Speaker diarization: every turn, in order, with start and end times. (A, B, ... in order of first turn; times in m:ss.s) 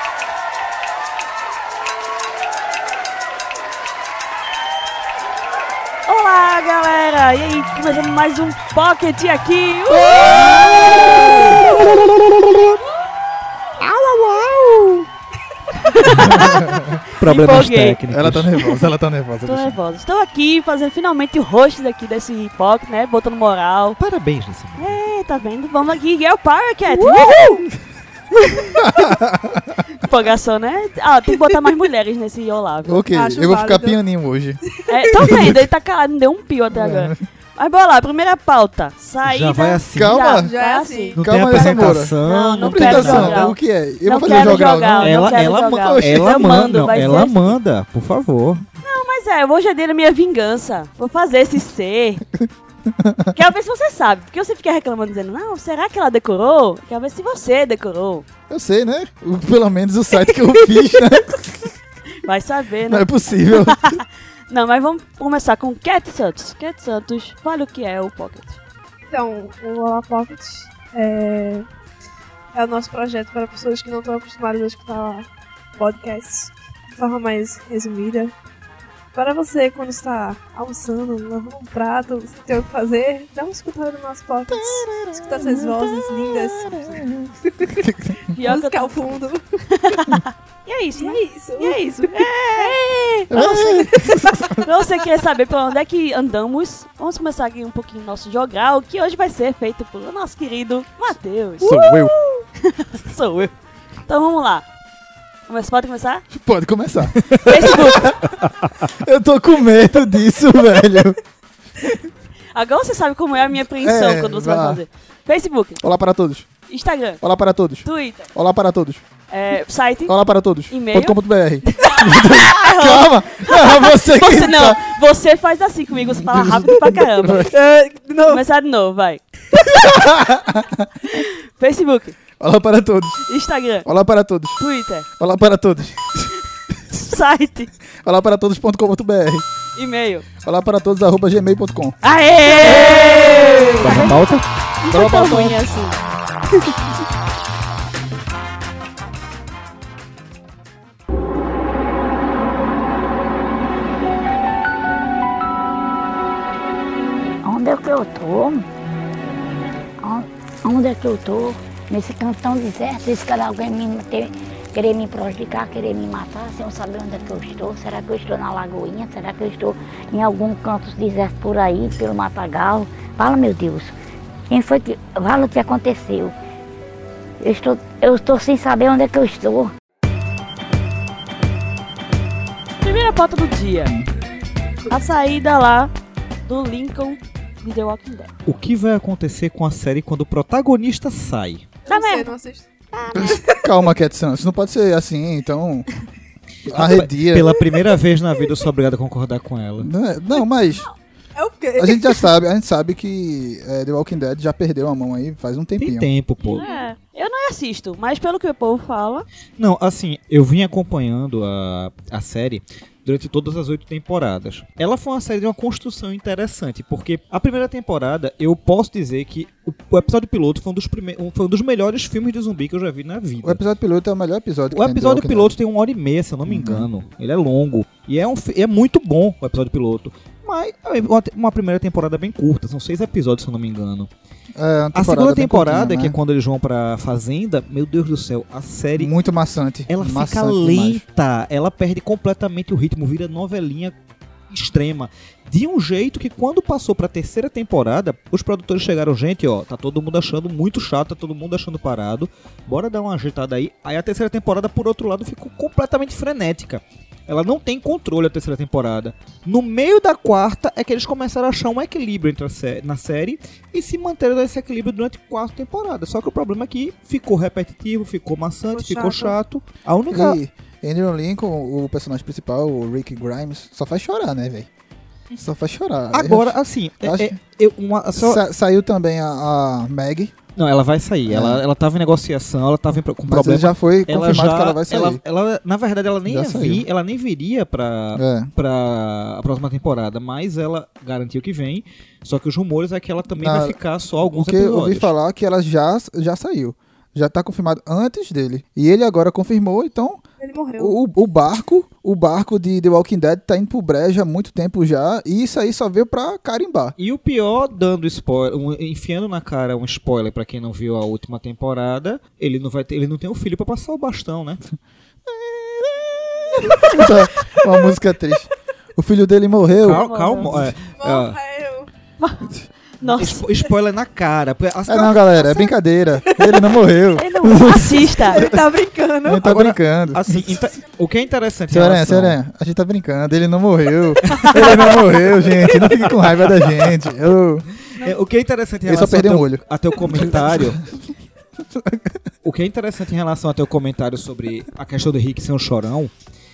0:06.1-0:11.6 A
0:10.6-0:11.7 B
0:15.8-0:18.0 A
0:16.0-0:16.5 C
0:16.2-0:17.0 B
0:17.2-0:18.5 C
0:18.1-0:19.8 B
0:19.4-0:24.0 A
0:24.0-0:25.0 C
0:24.8-0:27.6 A
0:26.9-0:27.7 B
0:28.3-0:28.8 A
0:28.8-0:29.8 B
0:30.0-0:33.0 A
0:32.8-0:34.6 B
0:33.1-0:34.0 D
0:34.9-0:47.6 A
0:35.2-0:35.7 B
0:36.7-0:37.2 B
0:39.2-0:40.2 C
0:39.9-0:40.5 B
0:40.3-0:41.9 D
0:41.2-0:43.5 C
0:41.2-0:46.8 B
0:44.2-0:48.6 C
0:48.8-0:52.2 A
0:52.9-0:53.3 B
0:53.3-0:58.2 A
0:58.5-1:01.7 B
1:02.2-1:08.6 A
1:02.9-1:04.0 B
1:09.0-1:11.6 D
1:12.5-1:18.3 D
1:19.1-1:26.9 D
1:24.5-1:28.2 B
1:27.6-1:27.9 D
1:28.3-1:41.8 A
1:28.4-1:30.0 D
1:31.0-1:32.8 D
1:33.3-1:34.6 B
1:33.9-1:34.6 D
1:41.6-1:42.1 B
1:42.6-1:43.5 A
1:44.1-1:44.6 A
1:45.5-1:46.2 A
1:46.3-1:48.3 B
1:47.4-1:48.1 A
1:48.4-1:48.9 C
1:48.9-1:51.2 B
1:52.5-1:55.8 A
1:53.8-1:54.8 B
1:55.8-1:56.5 B
1:56.7-1:57.2 A
1:57.2-1:59.0 B
1:57.8-1:58.3 A
1:59.3-2:00.1 A
2:00.1-2:05.0 B
2:00.7-2:07.5 A
2:05.9-2:07.5 B
2:07.5-2:08.4 D
2:08.2-2:09.7 A
2:09.5-2:10.9 B
2:11.1-2:12.2 A
2:12.4-2:13.2 B
2:13.3-2:13.9 A
2:13.8-2:14.6 B
2:14.6-2:15.1 A
2:15.2-2:16.3 B
2:16.9-2:17.7 A
2:18.0-2:19.4 B
2:19.8-2:20.2 A
2:20.4-2:21.9 B
2:22.0-2:24.2 A
2:23.8-2:24.4 C
2:24.8-2:25.9 A
2:24.9-2:25.6 B
2:37.4-2:38.6 E
2:40.0-2:53.9 E
2:54.5-2:56.3 E
2:57.4-2:59.7 E
3:02.8-3:03.9 A
3:04.9-3:05.9 A
3:06.4-3:08.3 A
3:08.4-3:11.6 C
3:11.9-3:12.7 D
3:11.9-3:12.3 A
3:12.9-3:13.4 A
3:13.1-3:15.8 B
3:13.2-3:13.6 D
3:16.6-3:19.9 C
3:16.7-3:17.6 B
3:19.8-3:20.9 B
3:21.4-3:22.3 D
3:21.8-3:26.1 B
3:25.8-3:26.6 C
3:26.4-3:29.2 A
3:26.6-3:26.9 D
3:29.6-3:43.6 C
3:43.4-3:45.5 B
3:44.7-3:54.1 C
3:46.4-3:46.9 B
3:54.6-3:56.2 B
3:54.9-3:59.1 C
3:59.0-4:01.0 B
3:59.9-4:03.9 C
4:04.5-4:30.4 C
4:28.7-4:29.3 D
4:30.1-4:34.7 B
4:35.3-4:37.3 B
4:36.1-4:38.4 C
4:38.2-4:40.3 B
4:40.6-4:55.1 C
4:41.3-4:41.6 B
4:43.3-4:45.2 B
4:46.2-4:46.9 B
4:48.2-4:48.5 B
4:53.4-4:53.8 B
4:54.3-5:00.2 B
5:00.4-5:01.0 D
5:00.8-5:06.9 B
5:07.0-5:14.6 C
5:15.3-5:20.7 B
5:16.8-5:17.9 D
5:19.8-5:21.4 C
5:19.9-5:20.5 A
5:20.9-5:21.9 D
5:22.2-5:23.4 A
5:23.1-5:25.4 C
5:24.8-5:28.6 B
5:25.4-5:25.7 D
5:26.2-5:26.8 D
5:27.2-5:28.5 A
5:27.6-5:29.5 D
5:29.2-5:30.6 B
5:29.4-5:32.4 C
5:31.7-5:37.7 B
5:34.2-5:35.1 C
5:34.4-5:35.9 D
5:35.7-5:37.0 C
5:38.0-5:40.8 C
5:38.8-5:40.9 B
5:41.7-5:42.2 B
5:42.4-5:46.1 C